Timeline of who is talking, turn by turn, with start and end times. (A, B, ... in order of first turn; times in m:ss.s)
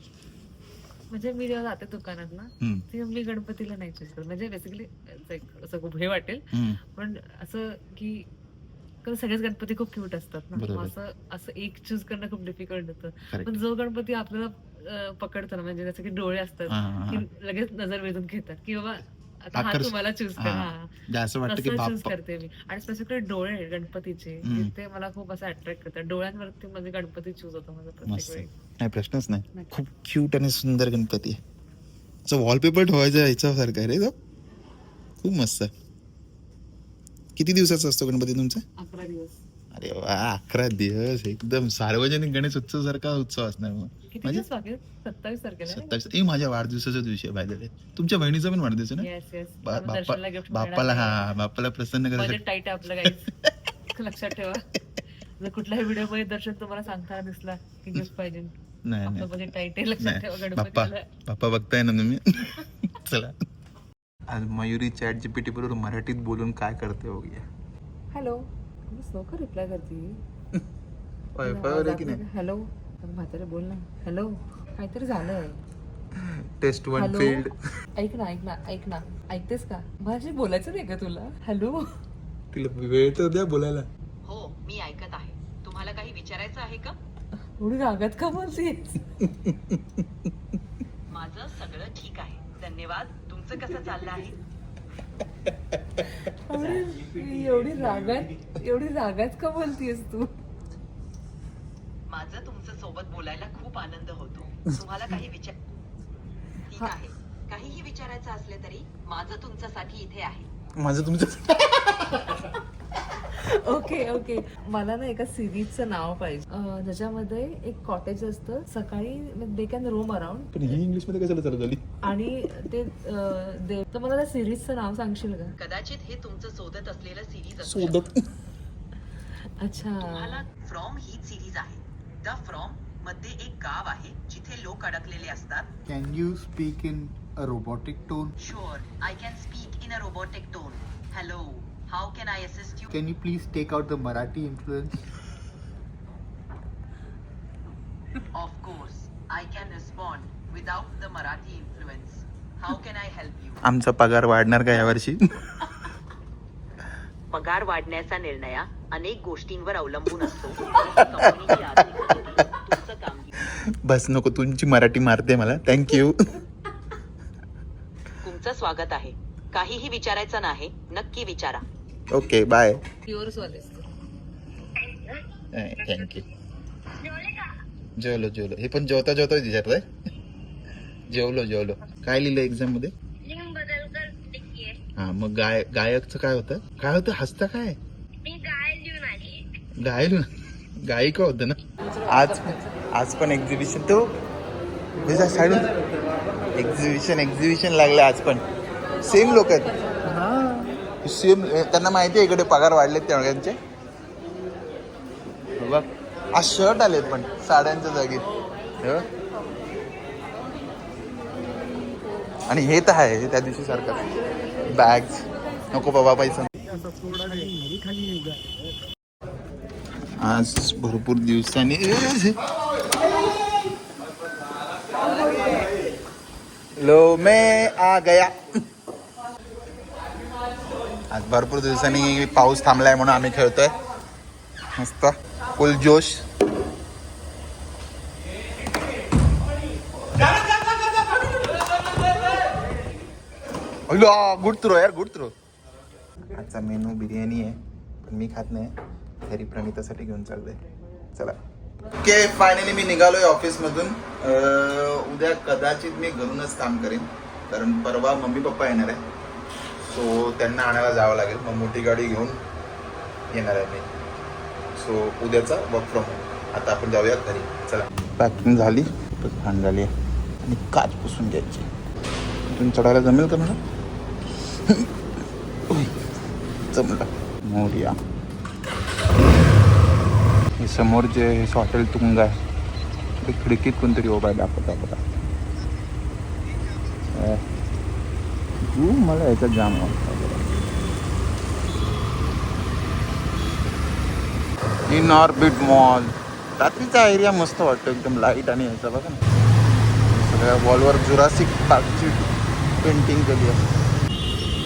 0:01.1-0:08.3 A
0:06.5-0:06.8 B
0:09.0-0:20.8 A
0:10.6-0:10.9 B
0:13.3-0:13.6 B
0:16.7-0:17.2 B
0:19.5-0:22.1 B
0:21.5-0:28.5 A
0:24.4-0:24.7 B
0:28.0-0:31.4 B
0:32.2-0:34.1 B
0:35.2-0:35.7 B
0:37.4-0:38.6 B
0:38.8-0:39.4 A
0:39.7-0:44.4 B
0:44.1-0:46.0 A
0:45.6-0:49.1 B
0:49.0-0:51.3 A
0:49.6-0:52.4 B
0:52.2-0:53.3 A
0:53.9-0:54.7 A
0:55.4-0:58.5 A
0:58.8-0:59.3 B
0:59.1-1:01.0 A
1:00.0-1:03.4 B
1:04.3-1:07.4 B
1:08.1-1:10.2 A
1:11.3-1:12.2 B
1:11.4-1:15.6 A
1:16.2-1:17.5 B
1:16.9-1:21.9 A
1:22.5-1:23.9 B
1:24.2-1:27.0 C
1:27.6-1:29.0 A
1:31.1-1:34.4 C
1:36.2-1:40.3 A
1:42.1-1:45.5 C
1:46.6-1:50.5 C
1:50.8-1:52.4 B
1:53.3-2:00.5 A
2:00.5-2:01.8 B
2:02.0-2:05.5 A
2:05.6-2:08.1 C
2:07.6-2:08.2 B
2:09.6-2:10.4 A
2:10.0-2:15.7 C
2:15.9-2:18.3 D
2:18.4-2:22.9 C
2:22.9-2:25.0 D
2:28.3-2:33.6 C
2:33.6-2:35.5 B
2:37.3-2:43.3 C
2:43.4-2:46.4 B
2:48.2-2:51.6 C
2:52.1-2:52.8 B
2:53.1-2:53.9 A
2:55.5-2:56.2 B
2:58.0-2:59.9 B
3:01.1-3:03.5 B
3:03.5-3:04.0 E
3:04.4-3:07.8 B
3:08.4-3:09.2 E
3:08.7-3:10.2 B
3:10.8-3:14.2 B
3:15.0-3:15.7 B
3:16.5-3:18.4 B
3:19.0-3:19.7 B
3:20.9-3:23.6 B
3:25.6-3:28.3 B
3:28.8-3:29.1 B
3:32.5-3:34.1 B
3:34.6-3:36.5 B
3:36.7-3:37.6 D
3:40.2-3:42.4 B
3:42.9-3:43.7 E
3:46.8-3:48.6 B
3:51.1-3:53.8 B
3:54.8-3:56.2 B
4:03.9-4:05.3 B
4:06.3-4:08.7 B
4:09.2-4:10.6 B
4:12.0-4:19.0 B
4:19.8-4:22.4 B
4:23.3-4:23.9 B
4:24.7-4:29.9 B
4:30.4-4:31.7 B
4:32.5-4:33.6 B
4:35.7-4:35.9 B
4:36.7-4:38.0 B
4:40.6-4:42.4 B
4:43.2-4:45.0 B
4:47.1-4:47.4 B
4:48.6-4:50.5 B
4:54.9-4:59.2 B
5:00.0-5:03.7 B